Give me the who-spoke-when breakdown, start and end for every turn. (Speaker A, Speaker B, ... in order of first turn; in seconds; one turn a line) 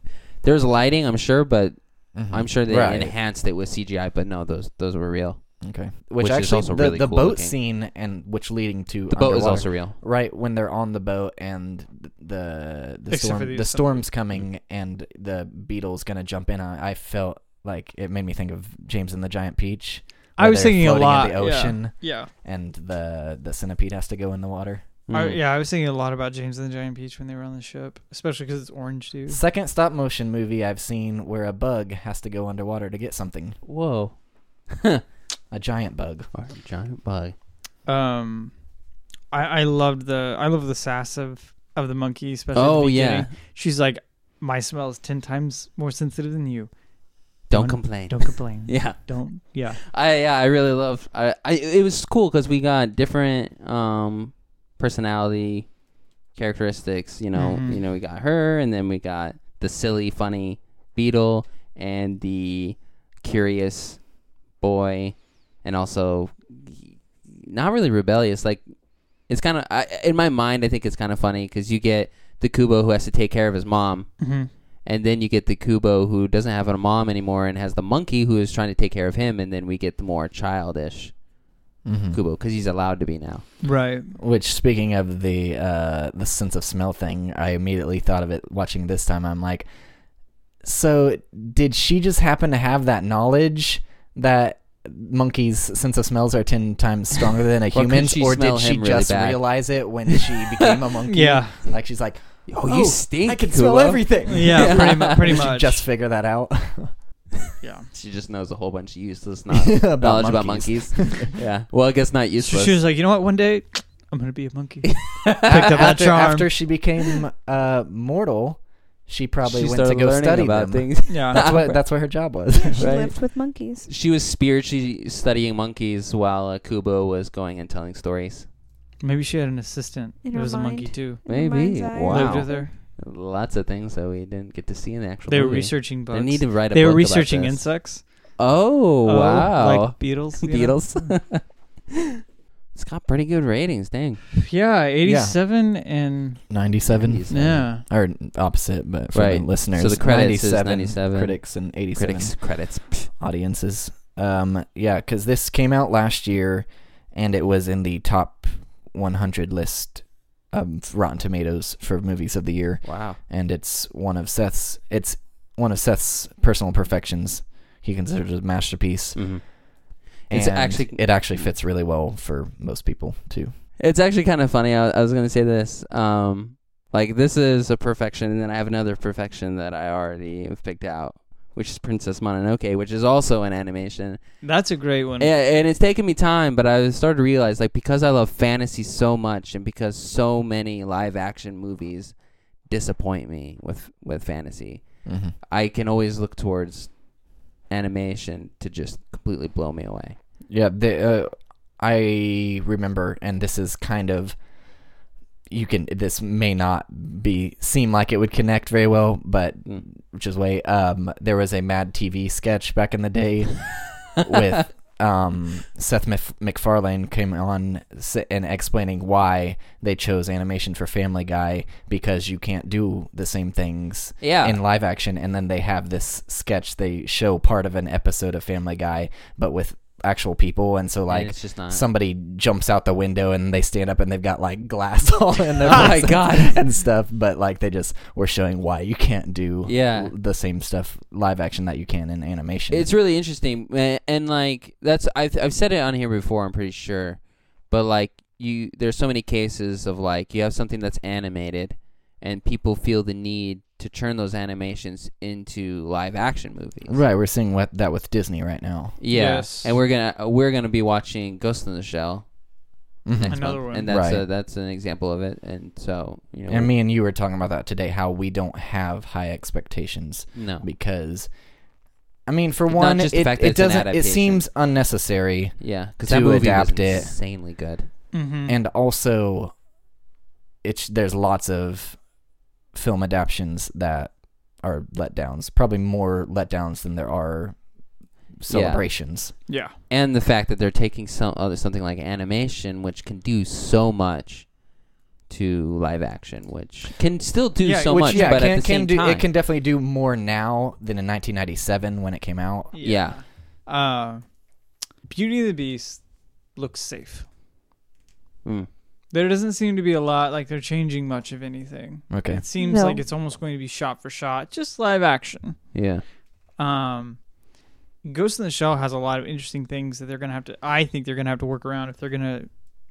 Speaker A: 0.4-5.4
Speaker B: 2.1-3.1
Speaker B: 5.6-24.8
Speaker A: 6.2-7.5
Speaker A: 9.1-9.9
Speaker C: 13.1-14.0
Speaker C: 20.4-22.3
Speaker A: 25.1-25.4
Speaker C: 25.1-29.4
Speaker B: 29.3-33.6
Speaker A: 33.6-34.2
Speaker A: 34.7-35.0
Speaker B: 35.5-36.3
Speaker A: 36.3-37.3
Speaker C: 37.9-38.5
Speaker C: 39.3-46.7
Speaker A: 42.5-43.3
Speaker A: 47.5-49.1
Speaker C: 47.5-49.8
Speaker A: 49.8-55.7
Speaker A: 56.3-64.0
Speaker C: 57.3-57.8
Speaker A: 64.6-68.6
Speaker A: 69.3-74.3
Speaker C: 74.2-74.5
Speaker A: 74.8-81.1
Speaker B: 81.8-82.2
Speaker A: 82.1-83.5
Speaker C: 83.6-84.1
Speaker B: 84.2-89.7
Speaker B: 90.6-106.9
Speaker A: 97.7-99.5
Speaker A: 100.1-100.9
Speaker C: 101.1-101.6
Speaker A: 102.5-105.3
Speaker C: 104.3-105.8
Speaker C: 107.6-107.9
Speaker A: 107.9-112.8
Speaker B: 109.5-111.3
Speaker C: 112.4-116.5
Speaker A: 114.9-115.6
Speaker B: 115.5-122.9
Speaker A: 119.4-121.8
Speaker C: 121.1-121.4
Speaker D: 122.5-123.9
Speaker A: 122.8-123.2
Speaker A: 123.8-128.4
Speaker C: 129.0-131.2
Speaker D: 130.2-132.7
Speaker A: 131.2-137.7
Speaker C: 132.0-132.7
Speaker C: 135.3-138.2
Speaker A: 138.4-142.0
Speaker C: 139.0-141.2
Speaker A: 142.7-144.2
Speaker C: 144.4-146.4
Speaker B: 145.0-145.3
Speaker B: 146.5-152.4
Speaker A: 147.0-147.6
Speaker C: 147.3-147.8
Speaker A: 149.1-153.1
Speaker B: 153.1-169.4
Speaker A: 162.8-163.2
Speaker A: 169.2-169.4
Speaker A: 170.0-171.5
Speaker B: 170.3-173.5
Speaker A: 173.8-184.2
Speaker C: 184.4-185.3
Speaker A: 185.2-192.1
Speaker A: 192.7-196.9
Speaker B: 195.1-195.3
Speaker A: 197.7-200.2
Speaker B: 200.5-204.3
Speaker B: 205.5-242.9
Speaker A: 224.2-224.6
Speaker A: 231.1-231.8
Speaker A: 235.6-236.6
Speaker A: 239.7-240.1
Speaker A: 242.7-257.0
Speaker B: 256.9-259.0
Speaker A: 259.0-262.3
Speaker C: 259.1-259.7
Speaker B: 263.0-264.2
Speaker A: 263.1-266.7
Speaker C: 263.3-263.9
Speaker B: 266.5-271.3
Speaker A: 270.3-270.6
Speaker B: 272.2-277.1
Speaker A: 272.7-274.4
Speaker A: 275.6-277.9
Speaker C: 278.1-278.6
Speaker B: 278.5-279.5
Speaker B: 280.6-282.0
Speaker B: 282.7-287.6
Speaker B: 288.4-289.3
Speaker A: 288.5-294.5
Speaker C: 289.5-289.7
Speaker A: 295.3-299.2
Speaker C: 297.6-298.4
Speaker B: 297.9-302.7
Speaker C: 302.7-304.3
Speaker A: 302.8-303.2
Speaker C: 305.0-307.2
Speaker C: 309.1-315.7
Speaker B: 312.1-312.4
Speaker D: 312.6-313.0
Speaker A: 315.7-316.0
Speaker C: 316.6-317.2
Speaker C: 318.0-322.5